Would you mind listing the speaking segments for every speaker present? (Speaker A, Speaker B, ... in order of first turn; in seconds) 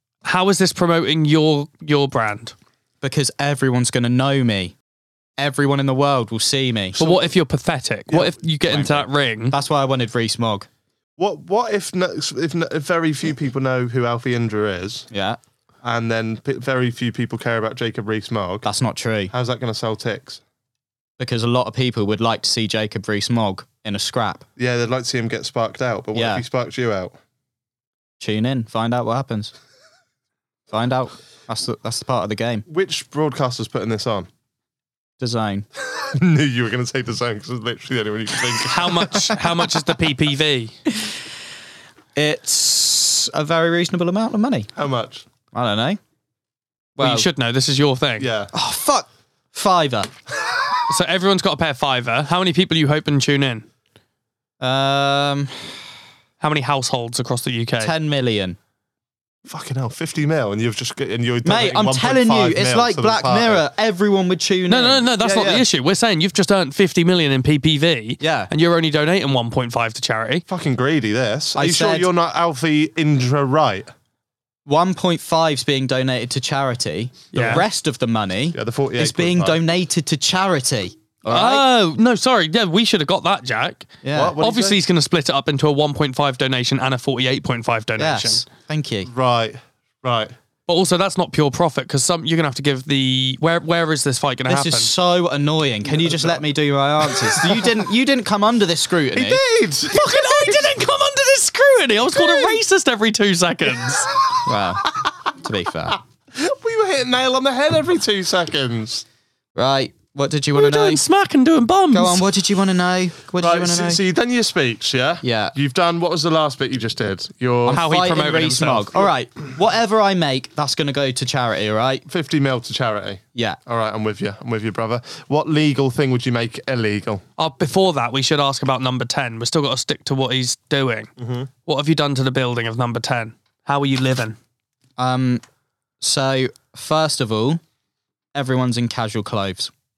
Speaker A: 0.2-2.5, 7.0-9.6, 38.7-40.8, 47.0-48.3, 50.9-53.7, 56.4-57.9, 64.7-70.5, 77.3-77.7, 81.3-88.4, 90.7-94.9, 99.9-104.1, 110.5-112.2, 117.7-118.9, 127.4-131.1, 131.7-134.4
Speaker B: 3.0-4.7, 5.4-7.0, 9.5-10.7, 15.1-15.4, 18.6-19.3, 21.2-24.4, 26.1-26.4, 28.2-29.5, 30.7-32.6, 35.2-35.6, 42.2-44.7, 45.5-46.0, 47.0-47.3, 48.5-50.1, 54.6-55.8, 57.8-58.6, 61.5-65.6, 68.2-68.5, 71.6-72.1, 74.7-81.7, 84.0-84.4, 88.0-89.1, 94.5-99.4, 104.5-104.9, 105.4-106.0, 109.6-111.0, 111.9-114.0, 115.2-115.5, 117.7-122.0, 135.0-135.4, 136.0-137.6, 138.3-139.7
Speaker C: 7.0-7.2, 8.1-9.1, 11.2-15.1, 15.8-18.7, 19.3-20.4, 24.6-27.1, 32.7-34.3, 35.9-39.4, 44.8-45.2, 48.2-48.5, 59.5-63.6, 70.5-73.9, 78.5-79.6, 84.2-84.8, 89.1-90.3, 99.1-100.7, 106.3-109.0, 113.4-117.8, 122.1-127.2, 131.2-131.5